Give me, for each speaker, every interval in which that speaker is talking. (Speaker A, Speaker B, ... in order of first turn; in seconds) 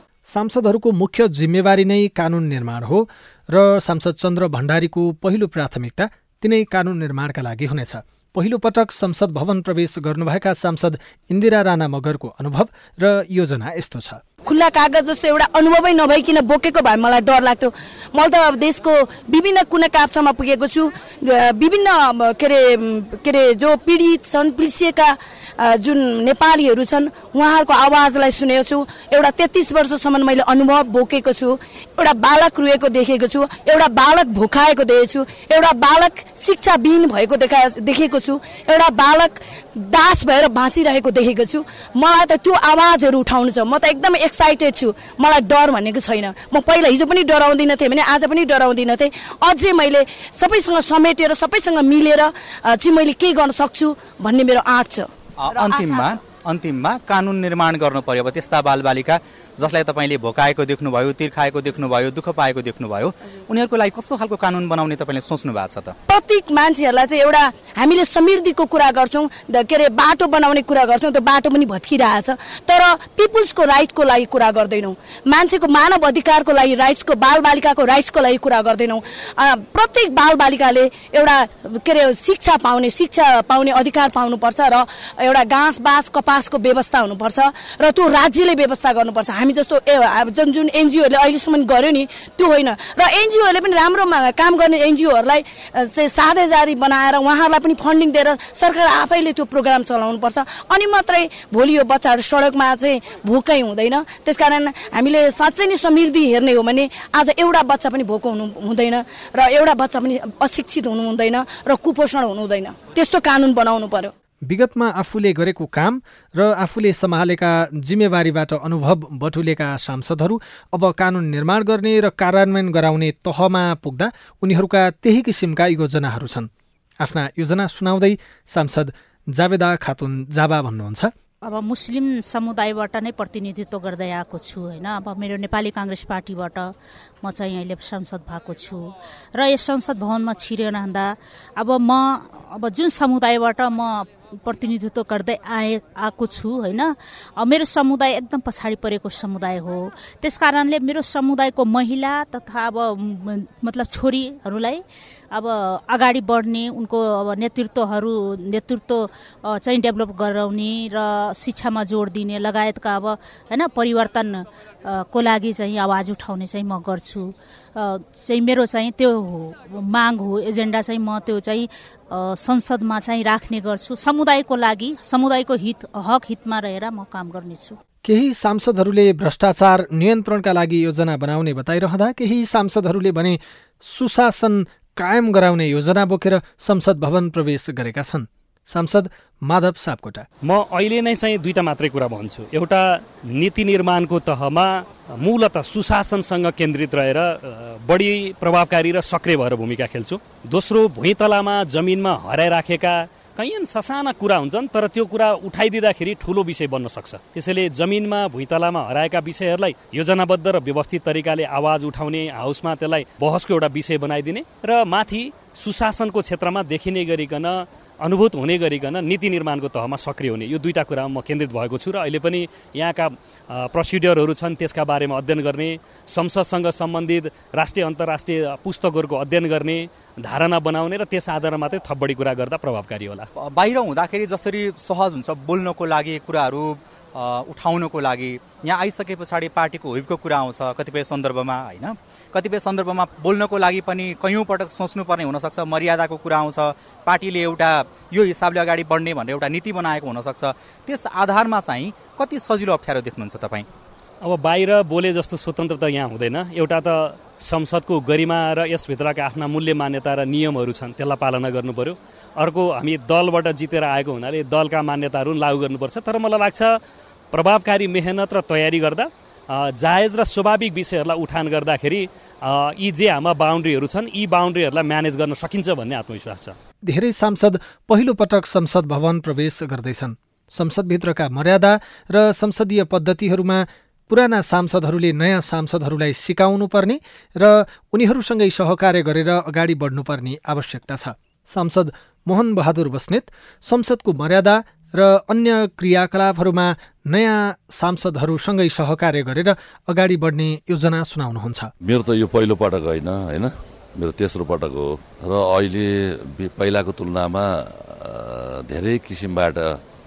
Speaker A: 0.3-14.2, 114.5-126.5, 127.0-131.1, 178.0-190.3, 276.9-301.7
Speaker B: 14.4-55.1, 66.1-114.1
Speaker C: 55.4-66.0, 233.4-253.7
Speaker D: 131.4-177.8
Speaker E: 190.4-233.3, 254.2-266.8, 267.3-276.5
Speaker F: 301.8-309.8